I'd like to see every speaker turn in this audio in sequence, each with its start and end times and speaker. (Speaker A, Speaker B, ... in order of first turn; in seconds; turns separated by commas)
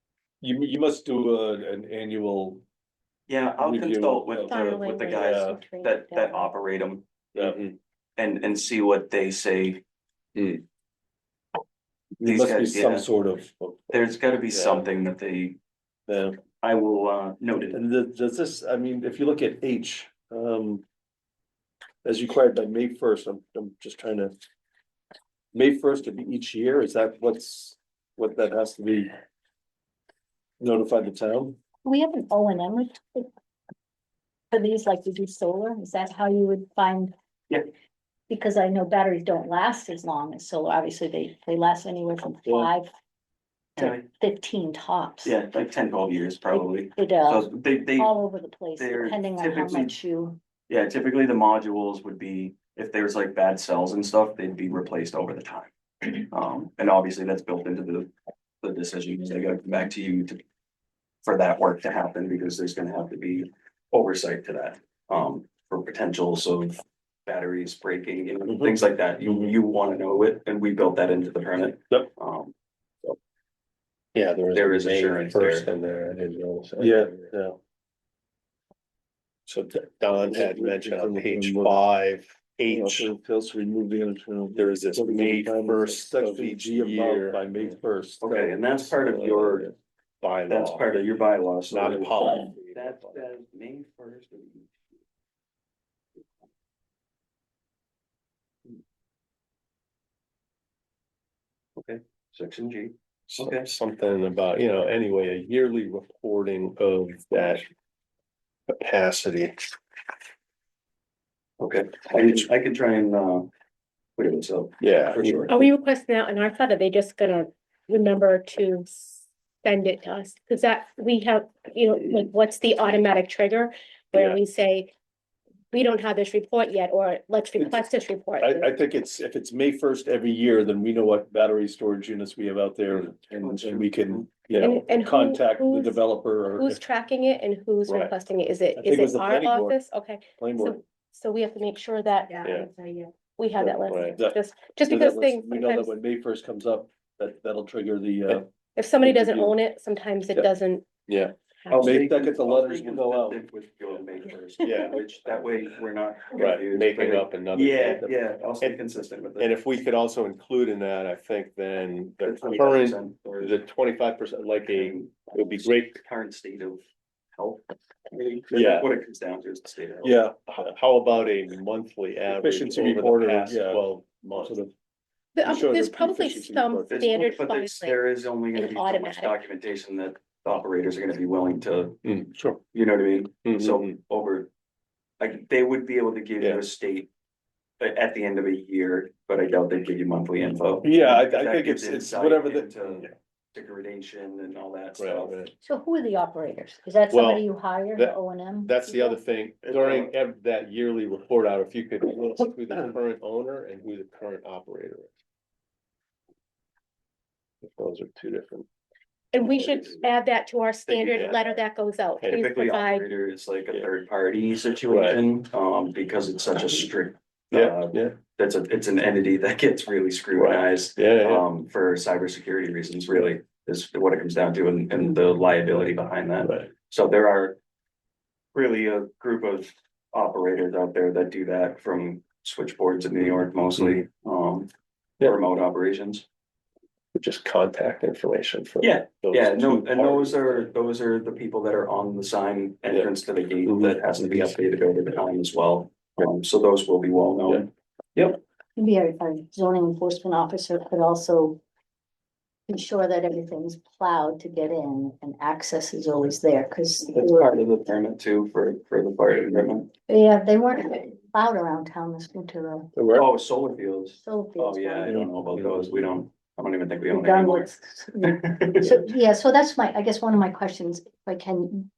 Speaker A: 0.4-2.6, Speaker B: 3.3-7.1, Speaker A: 3.6-5.6, Speaker C: 4.4-6.2, Speaker D: 5.8-6.4, Speaker E: 7.3-7.8, Speaker B: 8.2-9.8, Speaker E: 10.3-10.6, Speaker A: 12.2-14.0, Speaker B: 12.2-13.1, Speaker B: 13.9-15.6, Speaker A: 16.1-16.4, Speaker B: 16.6-17.8, Speaker A: 17.7-20.8, Speaker A: 22.0-24.3, Speaker A: 25.5-29.1, Speaker A: 30.6-31.6, Speaker D: 31.8-33.3, Speaker D: 34.5-37.1, Speaker D: 38.3-42.9, Speaker D: 43.8-45.4, Speaker B: 43.8-44.0, Speaker B: 45.2-48.2, Speaker D: 46.5-50.4, Speaker B: 48.8-50.0, Speaker B: 50.7-58.1, Speaker B: 58.6-60.4, Speaker B: 61.2-72.5, Speaker E: 74.1-77.4, Speaker B: 74.5-75.7, Speaker A: 76.8-77.5, Speaker E: 79.5-83.1, Speaker A: 80.2-81.8, Speaker A: 82.7-88.7, Speaker E: 84.5-87.8, Speaker B: 88.2-89.7, Speaker E: 89.0-93.2, Speaker B: 90.5-94.9, Speaker B: 101.8-103.7, Speaker E: 103.3-107.7, Speaker E: 108.7-109.7, Speaker B: 111.6-113.5, Speaker B: 114.2-115.5, Speaker E: 114.8-115.5, Speaker C: 115.5-124.9, Speaker E: 124.1-124.4, Speaker C: 125.7-128.7, Speaker A: 128.4-136.8, Speaker B: 133.1-134.5, Speaker E: 134.5-134.8, Speaker C: 134.6-145.9, Speaker E: 137.9-138.1, Speaker A: 138.8-139.7, Speaker A: 140.4-140.8, Speaker D: 142.4-142.8, Speaker E: 143.6-144.2, Speaker A: 144.1-148.5, Speaker C: 148.7-150.8, Speaker A: 149.0-149.5, Speaker E: 151.1-151.3, Speaker B: 151.7-159.6, Speaker A: 151.7-153.4, Speaker E: 154.6-155.6, Speaker E: 156.3-166.0, Speaker B: 162.2-163.6, Speaker B: 164.7-166.8, Speaker B: 167.3-170.2, Speaker E: 168.5-168.9, Speaker A: 170.0-170.7, Speaker E: 170.5-174.6, Speaker A: 172.3-173.8, Speaker A: 174.3-174.7, Speaker C: 175.3-179.4, Speaker A: 175.4-177.0, Speaker B: 176.9-182.0, Speaker E: 182.0-182.6, Speaker B: 182.7-184.5, Speaker E: 183.4-184.0, Speaker B: 185.2-187.1, Speaker B: 187.8-195.5, Speaker A: 190.8-192.8, Speaker E: 195.0-195.5, Speaker D: 195.6-199.1, Speaker E: 197.1-205.1, Speaker B: 199.6-200.1, Speaker E: 207.6-208.7, Speaker C: 209.3-213.0, Speaker B: 209.5-209.9, Speaker E: 210.9-211.6, Speaker E: 212.2-212.4, Speaker B: 212.3-227.6, Speaker E: 214.9-215.2, Speaker E: 217.5-218.2, Speaker E: 220.3-221.5, Speaker E: 226.4-226.7, Speaker B: 228.5-234.7, Speaker E: 233.8-234.0, Speaker B: 235.2-236.2, Speaker E: 237.1-240.7, Speaker B: 238.8-248.4, Speaker E: 243.6-244.6, Speaker D: 248.8-251.6, Speaker D: 252.7-257.5, Speaker B: 257.1-259.9, Speaker D: 260.1-262.9, Speaker A: 262.9-263.3, Speaker B: 263.1-269.0, Speaker D: 264.2-265.2, Speaker A: 265.0-265.3, Speaker D: 267.1-271.9